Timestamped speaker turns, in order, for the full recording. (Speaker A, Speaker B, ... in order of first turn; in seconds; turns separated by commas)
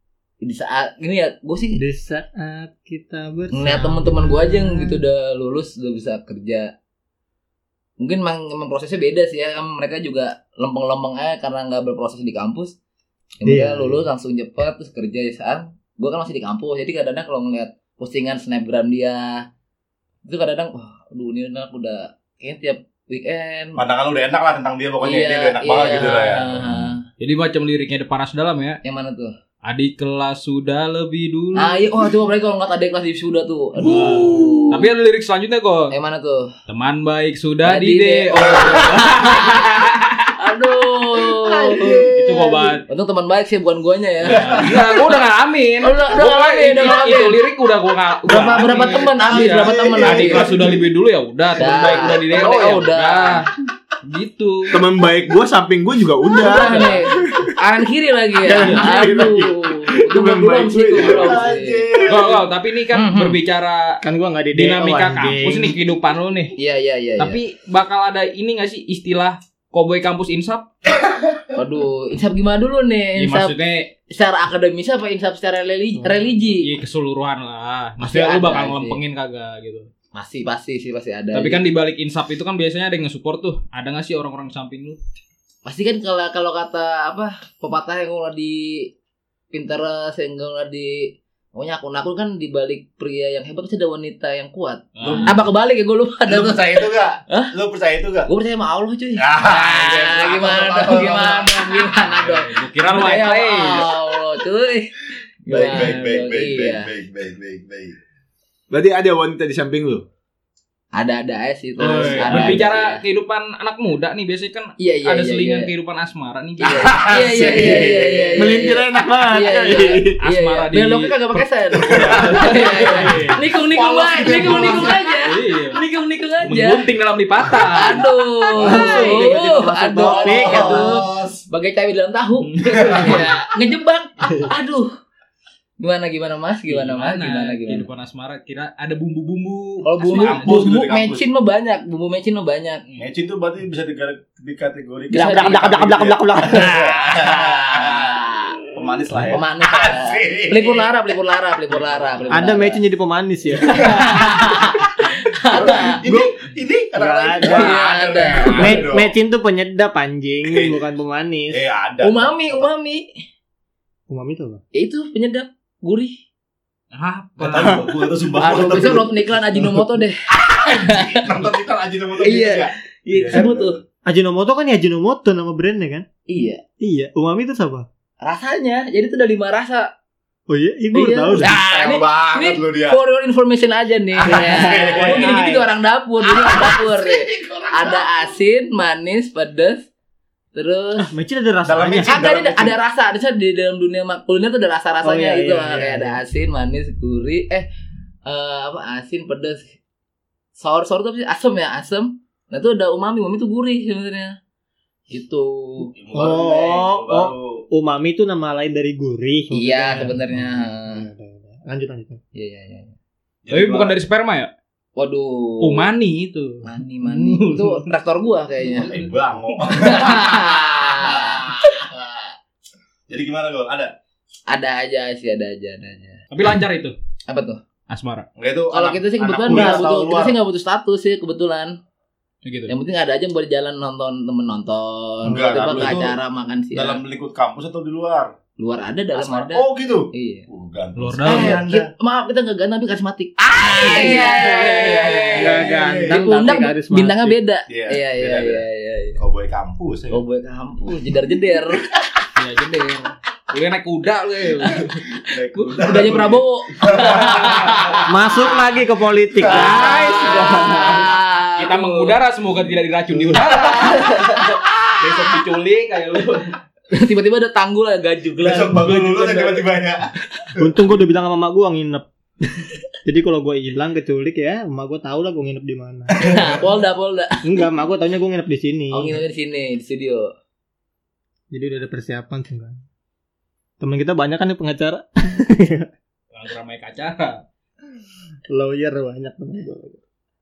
Speaker A: 0.4-1.8, Speaker B: 1.8-5.0, Speaker A: 3.5-6.7, Speaker A: 8.0-12.7, Speaker A: 13.4-19.4, Speaker B: 13.4-14.0, Speaker A: 20.2-23.8, Speaker C: 23.8-26.9, Speaker A: 25.0-27.0, Speaker D: 27.2-28.8, Speaker A: 28.8-29.3, Speaker D: 29.6-31.8, Speaker A: 31.5-34.9, Speaker D: 33.8-35.9, Speaker A: 35.9-36.5, Speaker D: 36.7-40.3, Speaker A: 37.6-39.8, Speaker A: 40.4-42.0, Speaker C: 41.3-42.7, Speaker D: 42.1-42.8, Speaker A: 42.9-44.8, Speaker D: 44.2-53.5, Speaker C: 44.3-44.7, Speaker A: 45.8-47.4, Speaker A: 48.2-50.6, Speaker C: 49.3-50.8, Speaker A: 51.6-53.4, Speaker D: 54.0-54.8, Speaker E: 54.7-57.5, Speaker A: 56.4-61.8, Speaker E: 58.4-62.4, Speaker D: 58.6-58.9, Speaker C: 61.0-62.3, Speaker D: 62.0-64.0, Speaker A: 62.9-63.4, Speaker B: 64.0-65.8, Speaker D: 64.5-66.5, Speaker A: 66.5-67.4, Speaker D: 67.2-70.7, Speaker A: 71.5-73.5, Speaker D: 73.2-73.9, Speaker A: 74.1-76.7, Speaker D: 76.5-79.9, Speaker A: 78.0-79.0, Speaker A: 80.1-81.6, Speaker D: 81.3-85.0, Speaker A: 85.6-88.9, Speaker A: 89.5-97.5, Speaker D: 95.0-95.4, Speaker C: 95.0-95.4, Speaker C: 96.3-98.3, Speaker A: 98.2-104.9, Speaker C: 99.2-101.9, Speaker D: 102.0-103.9, Speaker A: 105.5-106.9, Speaker C: 105.5-107.9, Speaker E: 108.7-110.0, Speaker A: 110.9-113.0, Speaker D: 111.8-117.6, Speaker C: 111.8-112.6, Speaker A: 114.8-115.7, Speaker A: 116.6-126.8, Speaker C: 116.7-118.4, Speaker E: 118.3-120.2, Speaker D: 120.2-121.1, Speaker D: 121.9-123.4, Speaker C: 121.9-125.2, Speaker D: 124.5-125.8, Speaker D: 126.4-128.1, Speaker A: 127.6-134.9, Speaker B: 128.6-131.0, Speaker D: 128.6-129.3, Speaker C: 130.0-131.4, Speaker D: 132.5-133.2, Speaker C: 132.7-133.3, Speaker A: 135.8-137.8, Speaker D: 136.7-140.6, Speaker A: 139.8-142.8, Speaker C: 140.1-141.2, Speaker C: 143.0-150.9, Speaker A: 145.1-145.7, Speaker B: 145.1-147.0, Speaker A: 147.0-148.6, Speaker A: 149.3-152.8, Speaker B: 152.3-154.3, Speaker A: 153.6-156.0, Speaker C: 153.7-154.6, Speaker C: 155.5-159.1, Speaker B: 156.0-156.3, Speaker B: 156.9-157.8, Speaker A: 157.4-158.9, Speaker B: 158.4-161.6, Speaker C: 160.5-160.8, Speaker C: 161.5-162.3, Speaker A: 162.0-163.1, Speaker B: 164.1-164.6, Speaker A: 164.7-166.2, Speaker D: 166.9-167.8, Speaker C: 167.4-169.8, Speaker A: 168.4-171.2, Speaker C: 170.3-173.8, Speaker A: 172.2-173.8, Speaker B: 174.1-176.0, Speaker A: 176.3-176.6, Speaker B: 176.8-177.8, Speaker A: 178.2-179.9, Speaker B: 180.5-181.5, Speaker A: 180.9-189.9, Speaker C: 181.4-183.0, Speaker C: 184.2-185.3, Speaker B: 184.3-185.7, Speaker C: 186.2-188.3, Speaker A: 190.5-191.1, Speaker B: 191.0-192.2, Speaker C: 191.6-192.8, Speaker A: 192.0-197.7, Speaker B: 195.0-196.2, Speaker A: 198.2-199.7, Speaker A: 200.6-204.3, Speaker A: 205.1-205.9, Speaker C: 205.9-207.6, Speaker B: 206.1-212.2, Speaker A: 209.5-211.1, Speaker A: 212.3-212.9, Speaker C: 213.4-214.0, Speaker D: 213.5-214.5, Speaker A: 214.9-215.9, Speaker D: 215.6-217.9, Speaker A: 216.6-219.0, Speaker C: 218.7-221.8, Speaker A: 219.8-221.9, Speaker C: 223.1-223.9, Speaker A: 224.5-226.2, Speaker D: 226.3-226.9, Speaker A: 227.3-227.6, Speaker D: 227.9-228.3, Speaker C: 228.3-230.3, Speaker A: 228.7-231.8, Speaker B: 229.5-229.8, Speaker D: 232.4-232.7, Speaker A: 232.7-237.0, Speaker C: 235.2-236.2, Speaker C: 236.7-238.3, Speaker A: 238.6-240.5, Speaker C: 239.1-241.9, Speaker D: 240.9-241.6, Speaker A: 241.2-249.2, Speaker C: 243.6-246.2, Speaker D: 244.9-245.2, Speaker B: 245.4-247.4, Speaker C: 247.7-248.7, Speaker C: 249.2-250.2, Speaker A: 250.1-251.9, Speaker D: 252.3-255.0, Speaker C: 255.2-258.1, Speaker A: 255.6-258.2, Speaker B: 258.1-261.0, Speaker C: 259.4-260.4, Speaker D: 259.4-266.5, Speaker A: 259.5-262.1, Speaker A: 263.6-264.4, Speaker A: 266.9-269.7, Speaker C: 268.4-270.8, Speaker B: 270.6-272.1, Speaker B: 273.0-276.1, Speaker A: 276.2-277.6, Speaker C: 276.2-276.6, Speaker B: 277.4-279.1, Speaker A: 278.9-280.3, Speaker B: 281.5-282.8, Speaker B: 283.8-285.9, Speaker D: 286.3-287.4, Speaker B: 288.5-290.0